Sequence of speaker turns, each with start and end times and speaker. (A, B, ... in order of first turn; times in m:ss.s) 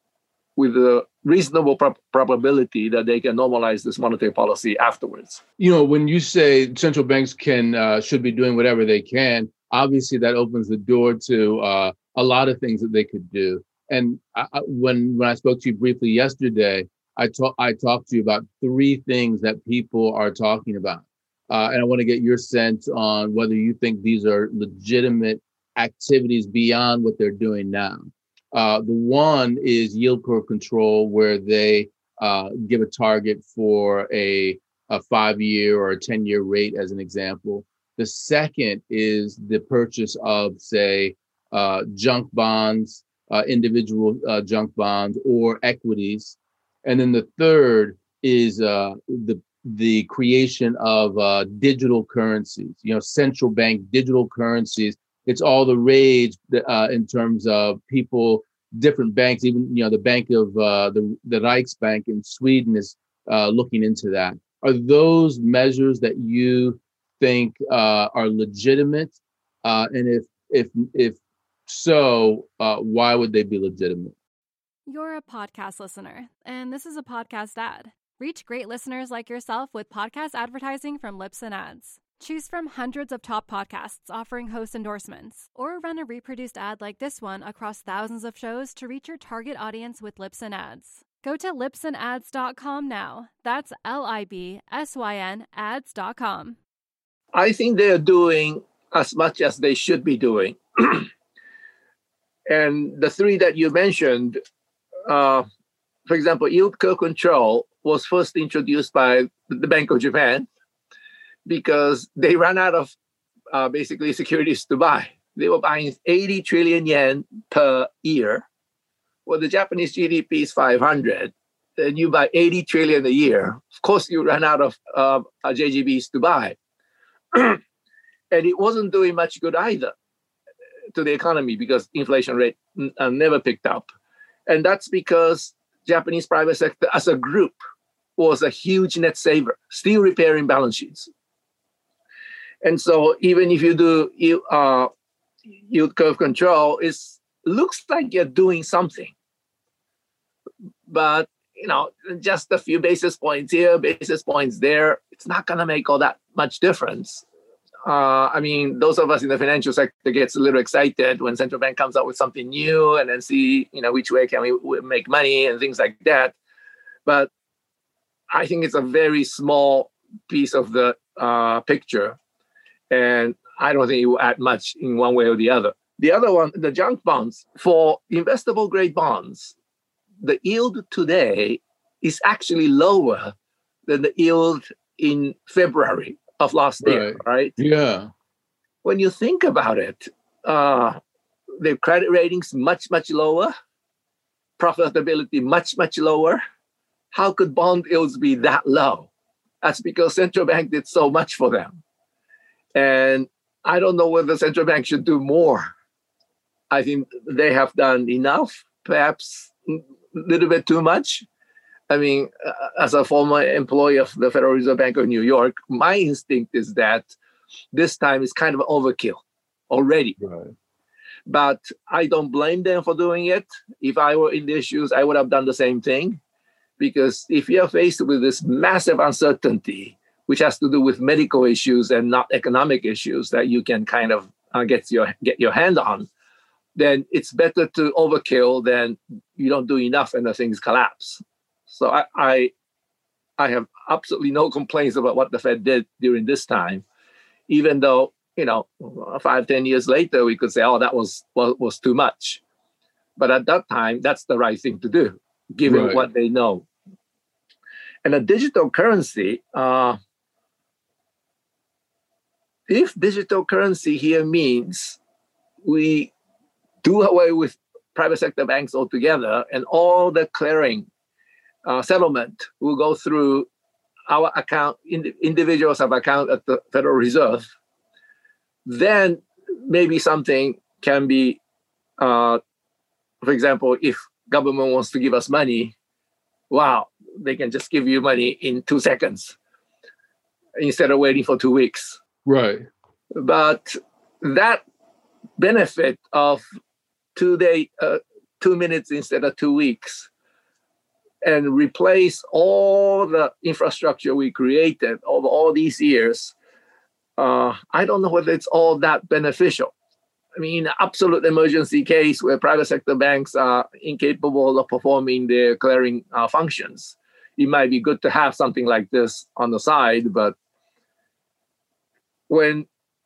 0:00.6-0:05.4 A
0:05.6-1:14.2 B
1:14.9-1:36.6 C
1:37.3-1:41.1 A
1:42.5-1:44.4 A
1:45.1-1:45.5 A
1:46.1-1:50.5 A
1:51.5-1:52.9 A
1:53.5-1:58.4 A
1:59.3-2:06.6 A
2:07.3-2:07.6 A
2:08.3-2:09.9 A
2:11.0-2:13.8 A
2:14.5-2:17.6 A
2:18.2-2:21.1 A
2:22.6-2:24.9 A
2:25.7-2:29.1 A
2:30.9-2:37.2 A
2:37.9-2:46.4 A
2:48.3-2:52.2 A
2:52.9-2:59.6 A
3:00.2-3:03.3 A
3:03.9-3:07.6 A
3:06.8-3:08.1 B
3:08.8-3:11.0 A
3:11.6-3:13.5 A
3:14.6-3:16.4 A
3:17.1-3:19.1 A
3:19.6-3:21.8 A
3:22.8-3:25.7 A
3:26.7-3:31.3 A
3:31.9-3:37.1 A
3:37.7-3:40.2 A
3:40.2-3:40.5 B
3:41.3-3:46.2 A
3:46.8-3:56.1 A
3:56.8-4:02.5 A
4:03.4-4:06.8 A
4:07.5-4:12.4 A
4:13.2-4:16.7 A
4:15.7-4:16.1 B
4:18.0-4:20.0 A
4:22.7-4:25.0 A
4:25.6-4:26.1 A
4:26.8-4:30.9 A
4:31.6-4:33.5 A
4:34.1-4:37.5 A
4:38.7-4:41.4 A
4:42.0-4:42.4 A
4:43.2-4:45.8 A
4:46.5-4:49.4 A
4:50.6-4:52.0 A
4:52.2-4:52.7 B
4:53.2-4:54.6 A
4:55.4-4:56.4 A
4:57.2-5:00.1 A
5:01.2-5:06.4 A
5:07.2-5:09.7 A
5:10.4-5:20.4 A
5:22.3-5:22.7 A